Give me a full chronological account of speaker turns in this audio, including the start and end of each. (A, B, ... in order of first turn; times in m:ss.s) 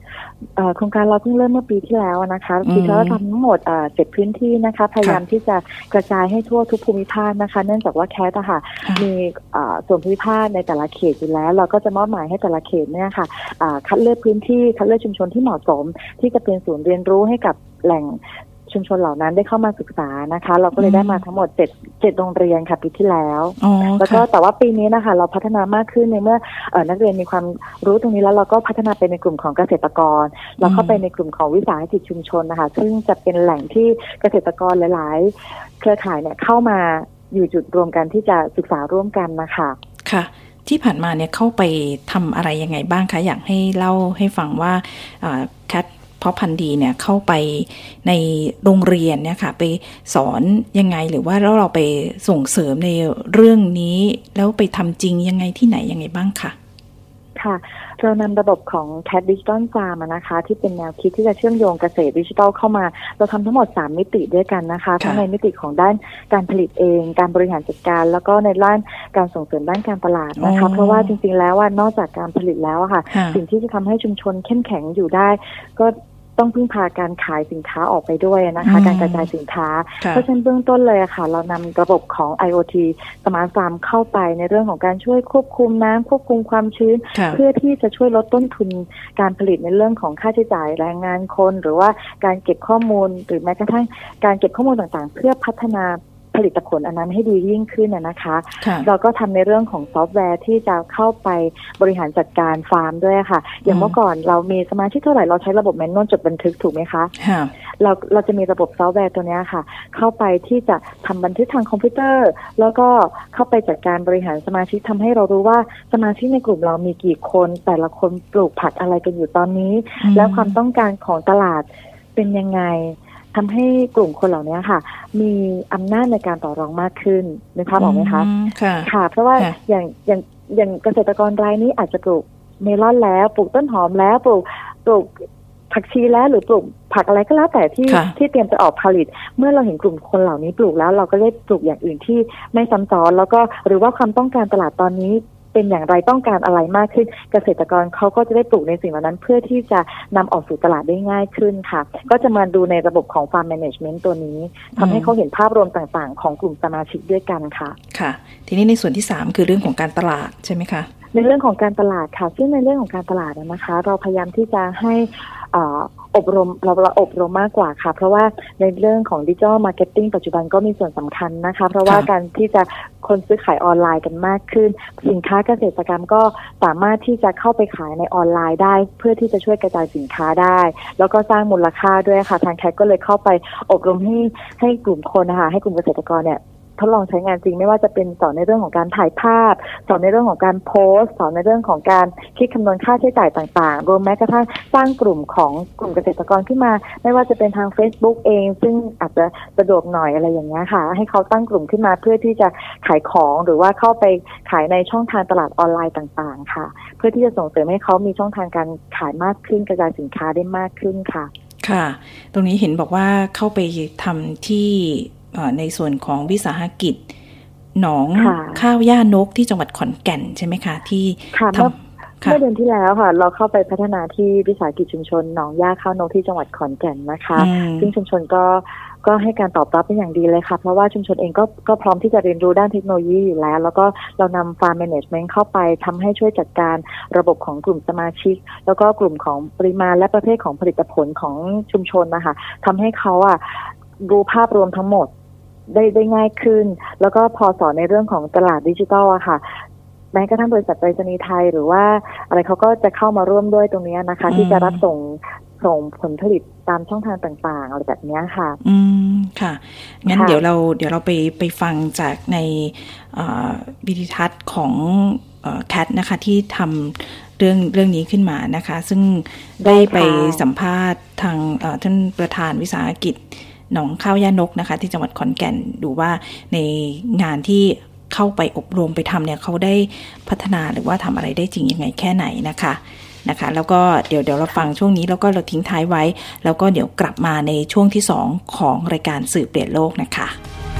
0:00.6-0:39.8 A
0:02.6-0:03.2 B
0:20.8-0:21.2 B
0:23.6-0:24.2 B
0:30.6-0:31.0 B
0:40.0-0:56.6 B
0:57.4-1:47.1 A
1:10.4-1:11.1 B
1:13.1-1:13.4 B
1:18.6-1:19.3 B
1:27.1-1:27.4 B
1:38.6-1:38.9 B
1:43.7-1:44.0 B
1:47.2-1:47.5 B
1:47.8-2:08.3 A
2:00.0-2:00.6 B
2:07.8-2:09.6 B
2:08.8-2:37.8 A
2:17.9-2:18.1 B
2:34.8-2:35.1 B
2:37.9-2:40.9 B
2:41.1-3:31.3 A
3:31.6-3:37.1 B
3:37.8-3:42.4 B
3:38.2-3:38.6 A
3:41.3-4:05.1 A
3:47.4-3:47.9 B
4:05.7-4:18.6 A
4:14.3-4:14.8 B
4:18.6-4:50.4 B
4:20.1-4:20.4 A
4:29.6-4:30.4 A